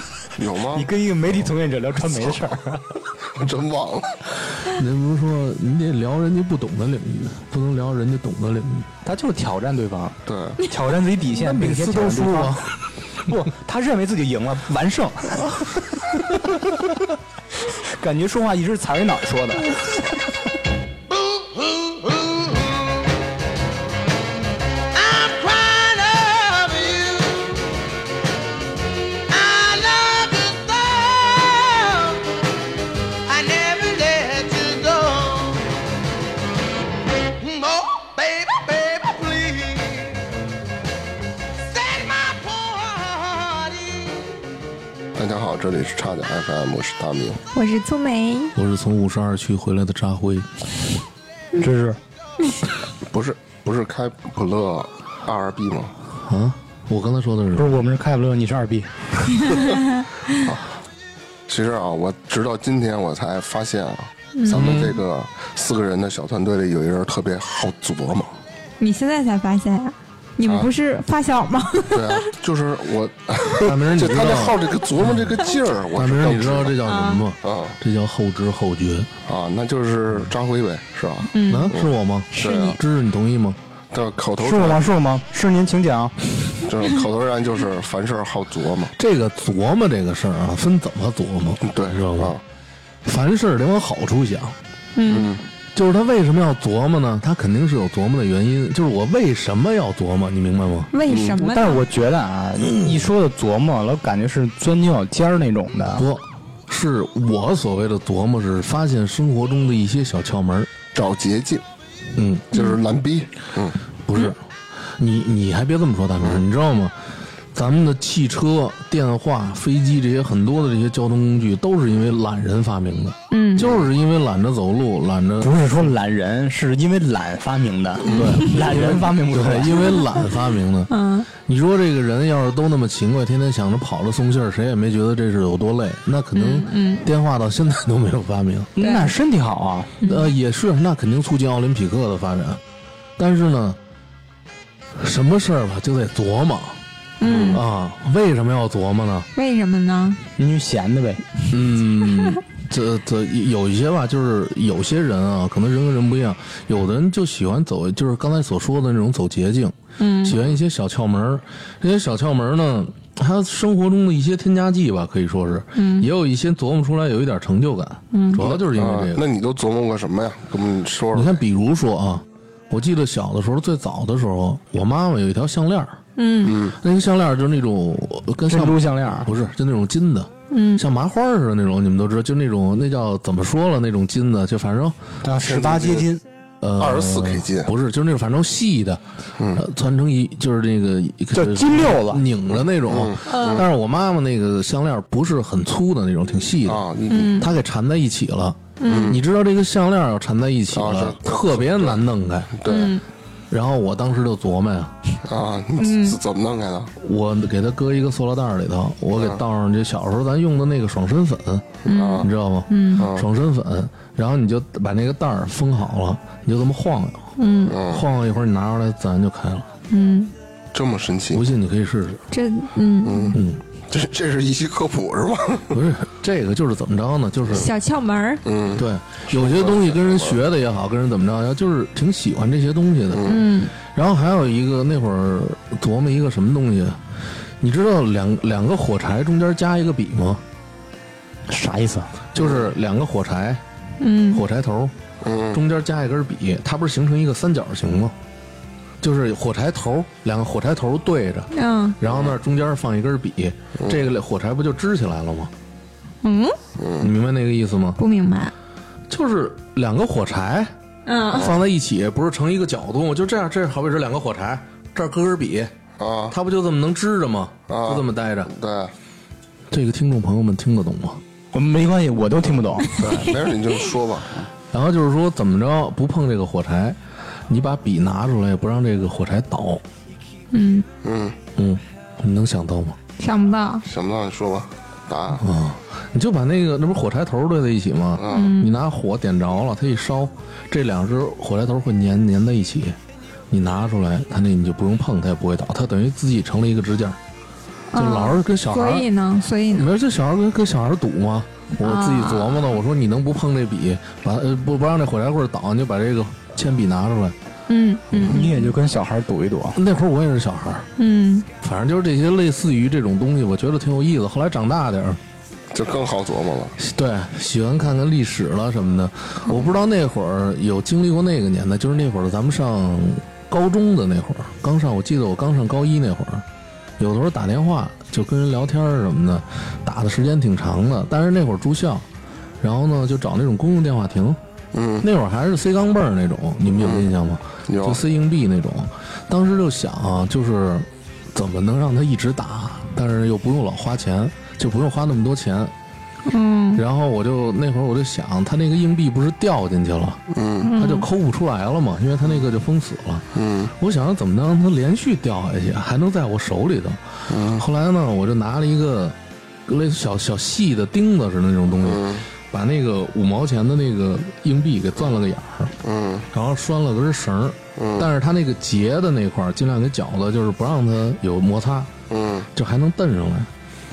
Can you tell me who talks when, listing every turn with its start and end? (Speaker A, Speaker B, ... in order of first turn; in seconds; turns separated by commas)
Speaker A: 0.4-0.9, Speaker B: 0.7-2.8, Speaker A: 3.3-4.2, Speaker C: 4.6-8.9, Speaker B: 9.0-12.7, Speaker A: 10.3-10.6, Speaker C: 11.3-12.7, Speaker B: 13.3-16.8, Speaker B: 17.8-20.1, Speaker D: 21.1-23.1, Speaker D: 24.9-27.6, Speaker D: 29.3-32.3, Speaker D: 33.3-35.7, Speaker D: 37.2-40.2, Speaker D: 41.6-44.3, Speaker A: 45.1-47.4, Speaker E: 47.5-48.5, Speaker C: 48.5-50.5, Speaker B: 51.6-52.0, Speaker A: 53.0-55.9, Speaker C: 56.2-57.7, Speaker B: 57.5-59.7, Speaker E: 59.4-60.4, Speaker A: 61.5-68.3, Speaker E: 64.3-64.8, Speaker C: 64.5-65.0, Speaker E: 68.8-72.3, Speaker A: 71.9-76.8, Speaker C: 73.6-75.4, Speaker C: 75.9-79.1, Speaker E: 76.8-77.2, Speaker A: 77.4-77.8, Speaker A: 79.3-82.8, Speaker E: 81.3-81.7, Speaker C: 81.5-83.6, Speaker E: 82.3-82.8, Speaker A: 83.9-84.8, Speaker B: 84.4-86.2, Speaker A: 86.6-88.9, Speaker C: 89.0-92.3, Speaker A: 91.6-92.4, Speaker C: 93.0-94.5, Speaker E: 94.9-95.3, Speaker A: 95.0-95.5, Speaker C: 95.7-100.9, Speaker E: 100.9-101.8, Speaker A: 101.1-101.3, Speaker B: 101.3-106.1, Speaker C: 102.6-103.1, Speaker C: 105.9-110.7, Speaker A: 110.9-111.6, Speaker C: 112.1-112.5, Speaker A: 112.5-113.8, Speaker C: 114.1-114.4, Speaker C: 115.0-116.9, Speaker C: 117.5-125.5, Speaker E: 123.3-123.8, Speaker B: 125.4-129.9, Speaker C: 128.0-138.7, Speaker E: 128.1-128.5, Speaker E: 130.9-131.3, Speaker E: 136.3-137.1, Speaker B: 138.8-139.9, Speaker E: 138.8-139.1, Speaker C: 140.0-142.6, Speaker E: 140.0-140.3, Speaker C: 143.2-143.8, Speaker C: 144.9-146.8, Speaker E: 147.2-147.6, Speaker A: 147.2-147.6, Speaker C: 147.5-149.3, Speaker E: 149.3-150.2, Speaker B: 150.4-151.2, Speaker C: 151.5-169.2, Speaker E: 160.0-160.4, Speaker E: 165.7-166.1, Speaker E: 168.1-168.4, Speaker A: 168.4-171.4, Speaker C: 171.1-176.0, Speaker E: 176.2-176.6, Speaker A: 176.4-176.8, Speaker C: 176.6-185.0, Speaker B: 178.5-179.3, Speaker E: 180.5-180.8, Speaker B: 185.2-186.2, Speaker A: 185.4-186.1, Speaker C: 186.6-189.0, Speaker A: 186.8-187.7, Speaker A: 189.4-189.6, Speaker C: 189.5-196.8, Speaker B: 191.3-192.2, Speaker A: 192.9-193.7, Speaker E: 193.2-193.6, Speaker A: 196.6-197.3, Speaker E: 197.1-197.5, Speaker C: 197.4-202.6, Speaker E: 198.8-199.2, Speaker A: 198.9-199.2, Speaker A: 200.7-202.0, Speaker A: 202.6-203.0, Speaker E: 202.7-203.0, Speaker C: 203.5-204.9, Speaker A: 205.2-206.9, Speaker E: 205.8-206.2, Speaker C: 207.0-219.7, Speaker A: 211.8-212.3, Speaker E: 211.8-213.1, Speaker A: 213.0-213.2, Speaker E: 217.4-217.8, Speaker A: 217.7-218.0, Speaker E: 219.9-220.3, Speaker A: 220.7-221.4, Speaker C: 221.3-222.2, Speaker E: 222.3-223.3, Speaker A: 223.0-225.8, Speaker C: 223.3-223.6, Speaker C: 225.7-227.7, Speaker E: 227.5-228.4, Speaker A: 228.4-230.4, Speaker C: 228.7-237.0, Speaker A: 233.1-233.4, Speaker E: 233.2-233.7, Speaker C: 237.6-240.4, Speaker B: 241.5-242.1, Speaker C: 242.3-243.6, Speaker A: 242.4-242.7, Speaker E: 244.0-244.4, Speaker C: 244.3-244.9, Speaker A: 245.2-245.6, Speaker C: 245.5-248.1, Speaker C: 249.0-255.5, Speaker E: 251.5-252.0, Speaker A: 252.1-252.3, Speaker E: 256.2-256.6, Speaker A: 256.8-257.1, Speaker C: 257.0-258.0, Speaker E: 258.0-258.5, Speaker C: 259.1-260.7, Speaker E: 261.1-261.5, Speaker C: 261.3-265.7, Speaker A: 266.0-266.3, Speaker C: 266.3-268.5, Speaker A: 267.7-268.9, Speaker C: 269.7-271.2, Speaker B: 271.5-273.0, Speaker A: 273.0-274.3, Speaker E: 273.0-273.5, Speaker C: 274.7-277.0, Speaker C: 277.5-279.8, Speaker E: 280.5-280.9, Speaker A: 281.0-281.4, Speaker C: 281.6-283.0, Speaker E: 283.2-283.8, Speaker A: 283.8-285.4, Speaker C: 285.4-293.0, Speaker A: 288.2-288.5, Speaker E: 288.3-288.8, Speaker C: 293.5-297.2, Speaker E: 297.9-299.9, Speaker C: 297.9-299.1, Speaker C: 299.7-307.3, Speaker E: 301.8-302.7, Speaker E: 307.7-308.7, Speaker B: 308.2-309.8, Speaker C: 309.7-310.9, Speaker E: 311.0-311.5, Speaker C: 311.6-315.2, Speaker A: 315.7-316.8, Speaker C: 316.8-326.4, Speaker C: 327.0-332.0, Speaker C: 332.6-334.4, Speaker A: 334.7-335.1, Speaker C: 335.0-345.7, Speaker A: 336.8-337.1, Speaker A: 337.7-338.0, Speaker E: 346.3-346.8, Speaker C: 346.7-350.2, Speaker A: 350.3-350.7, Speaker E: 350.6-351.1, Speaker C: 350.7-365.7, Speaker A: 353.3-353.7, Speaker A: 357.3-357.6, Speaker A: 361.8-362.2, Speaker A: 365.8-366.3, Speaker C: 366.3-371.9, Speaker A: 367.8-368.1, Speaker A: 372.1-372.5, Speaker C: 372.5-373.5